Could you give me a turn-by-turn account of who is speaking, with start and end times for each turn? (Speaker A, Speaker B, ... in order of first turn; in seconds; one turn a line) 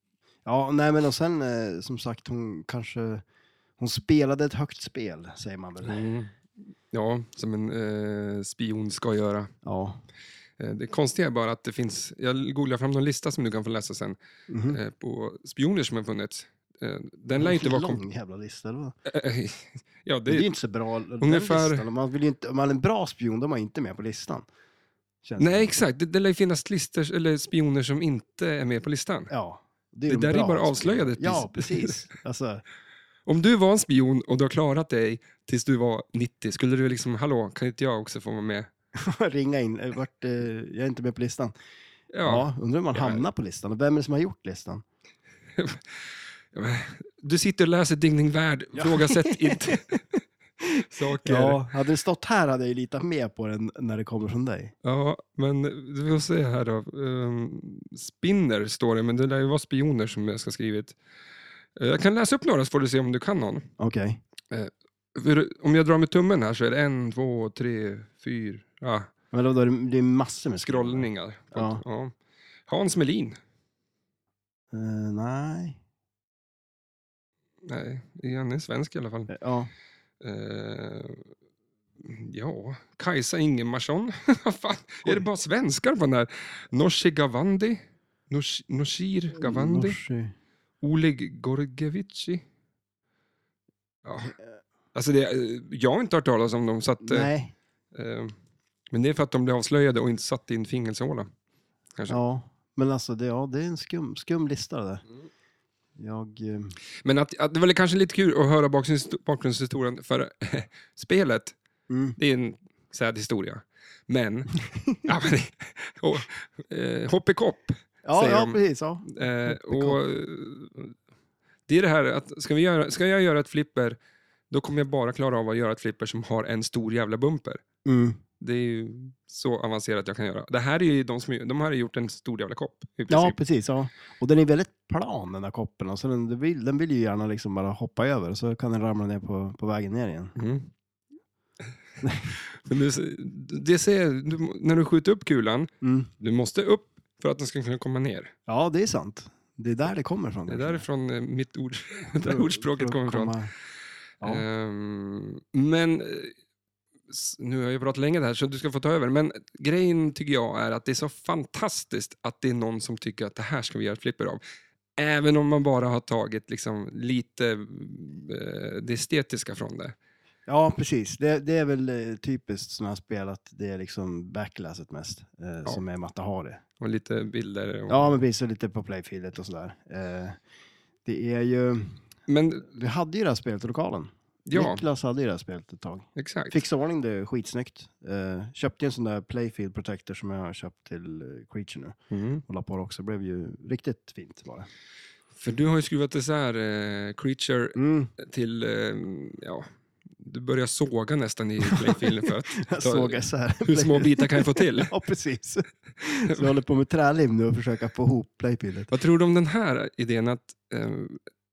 Speaker A: 0.5-3.2
Speaker A: 3.8-6.0
Speaker B: 5.8-6.4
Speaker B: 6.9-9.5
Speaker A: 9.6-10.0
Speaker B: 10.6-14.2
Speaker A: 14.5-14.8
Speaker B: 14.7-18.0
Speaker A: 17.3-19.0
Speaker B: 19.1-20.5
Speaker A: 20.3-24.5
Speaker B: 21.2-21.9
Speaker A: 25.2-25.7
Speaker B: 25.4-29.3
Speaker A: 29.3-32.6
Speaker B: 30.1-32.0
Speaker B: 33.3-38.7
Speaker A: 39.0-41.5
Speaker B: 42.1-43.2
Speaker A: 42.2-44.8
Speaker B: 45.6-45.8
Speaker B: 46.5-50.2
Speaker A: 48.8-49.8
Speaker B: 50.8-51.6
Speaker A: 51.2-54.7
Speaker B: 54.8-61.0
Speaker B: 61.8-63.7
Speaker A: 63.8-64.2
Speaker B: 64.5-69.1
Speaker A: 69.3-71.8
Speaker B: 70.6-72.1
Speaker B: 72.7-73.4
Speaker A: 74.7-75.8
Speaker B: 77.6-79.3
Speaker A: 79.3-79.7
Speaker B: 80.2-81.3
Speaker B: 82.0-90.0
Speaker A: 89.4-90.3
Speaker B: 90.8-92.4
Speaker B: 94.0-94.3
Speaker B: 94.9-97.3
Speaker A: 97.0-97.5
Speaker B: 97.9-98.3
Speaker B: 98.9-101.3
Speaker A: 102.1-105.0
Speaker A: 106.0-106.8
Speaker B: 107.0-111.5
Speaker A: 111.9-112.2
Speaker B: 112.2-121.0
Speaker A: 118.0-120.0
Speaker B: 121.7-124.0
Speaker B: 124.5-127.6
Speaker A: 127.8-128.2
Speaker B: 128.4-133.4
Speaker A: 133.1-140.3
Speaker B: 140.4-140.7
Speaker A: 142.0-142.3
Speaker B: 142.3-148.3
Speaker A: 145.8-146.1
Speaker A: 148.5-150.8
Speaker B: 150.5-153.3
Speaker A: 152.1-153.5
Speaker B: 154.2-156.3
Speaker B: 157.1-164.4
Speaker B: 165.0-169.9
Speaker A: 170.5-176.6
Speaker B: 176.8-178.2
Speaker A: 177.9-180.4
Speaker A: 181.1-182.0
Speaker B: 182.3-182.7
Speaker A: 182.7-194.7
Speaker B: 184.5-184.8
Speaker B: 186.2-186.6
Speaker B: 192.1-192.4
Speaker B: 195.4-199.7
Speaker A: 197.8-198.1
Speaker B: 200.2-204.9
Speaker A: 201.6-208.9
Speaker B: 208.9-211.2